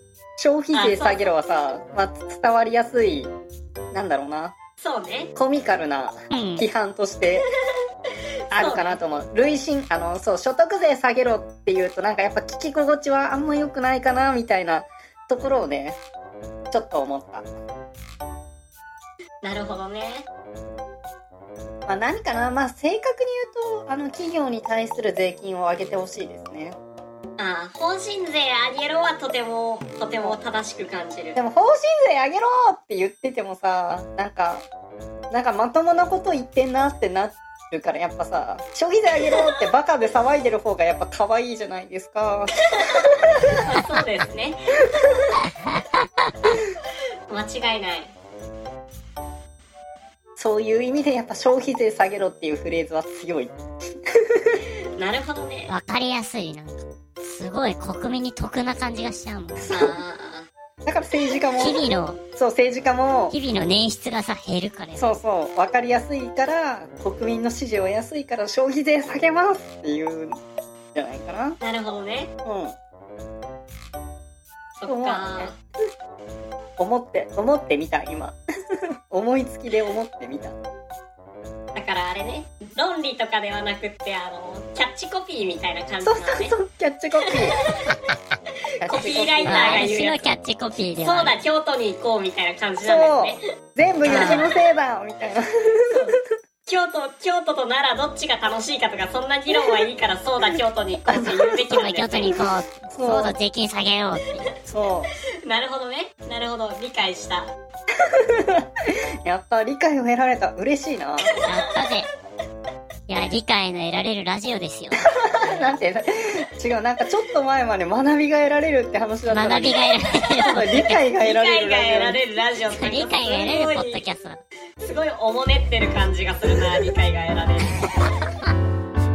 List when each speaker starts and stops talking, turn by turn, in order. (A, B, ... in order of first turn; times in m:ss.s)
0:00.4-0:03.3 A
0:00.7-0:01.2 B
0:03.9-0:04.6 A
0:04.8-0:05.3 B
0:05.4-0:07.4 A
0:06.3-0:06.7 C
0:08.5-0:09.0 B
0:08.5-0:16.0 A
0:16.7-0:17.5 A
0:19.4-0:20.3 B
0:21.9-0:26.8 A
0:27.4-0:31.4 B
0:31.4-0:34.7 A
0:35.3-0:42.5 A
0:42.8-0:44.8 B
0:47.3-0:48.1 B
0:50.4-0:53.6 A
0:54.3-0:54.6 A
0:55.0-0:55.7 B
0:55.7-0:59.7 C
0:59.6-1:00.0 A
0:59.7-1:00.5 B
1:00.9-1:01.8 A
1:01.6-1:02.2 C
1:02.4-1:03.4 A
1:03.3-1:05.1 C
1:05.0-1:10.4 A
1:10.9-1:11.6 A
1:11.6-1:12.3 B
1:12.4-1:12.8 A
1:14.8-1:15.6 B
1:14.9-1:15.6 A
1:16.8-1:18.4 A
1:19.1-1:20.6 A
1:21.8-1:26.6 B
1:26.0-1:27.6 A
1:28.8-1:29.9 A
1:28.9-1:30.2 B
1:29.5-1:31.3 C
1:31.0-1:33.4 B
1:32.8-1:35.9 A
1:34.0-1:34.5 C
1:34.1-1:34.6 B
1:35.9-1:42.4 B
1:41.1-1:41.6 A
1:41.7-1:44.5 C
1:42.9-1:43.4 A
1:44.7-1:45.1 A
1:45.4-1:47.5 B
1:48.2-1:48.6 A
1:49.2-1:51.3 A
1:51.2-1:51.8 B
1:51.4-1:52.1 C
1:53.1-1:55.0 C
1:55.3-1:59.8 A
1:59.3-2:01.0 C
2:00.4-2:02.2 A
2:01.2-2:04.0 B
2:02.7-2:04.4 C
2:04.8-2:07.9 B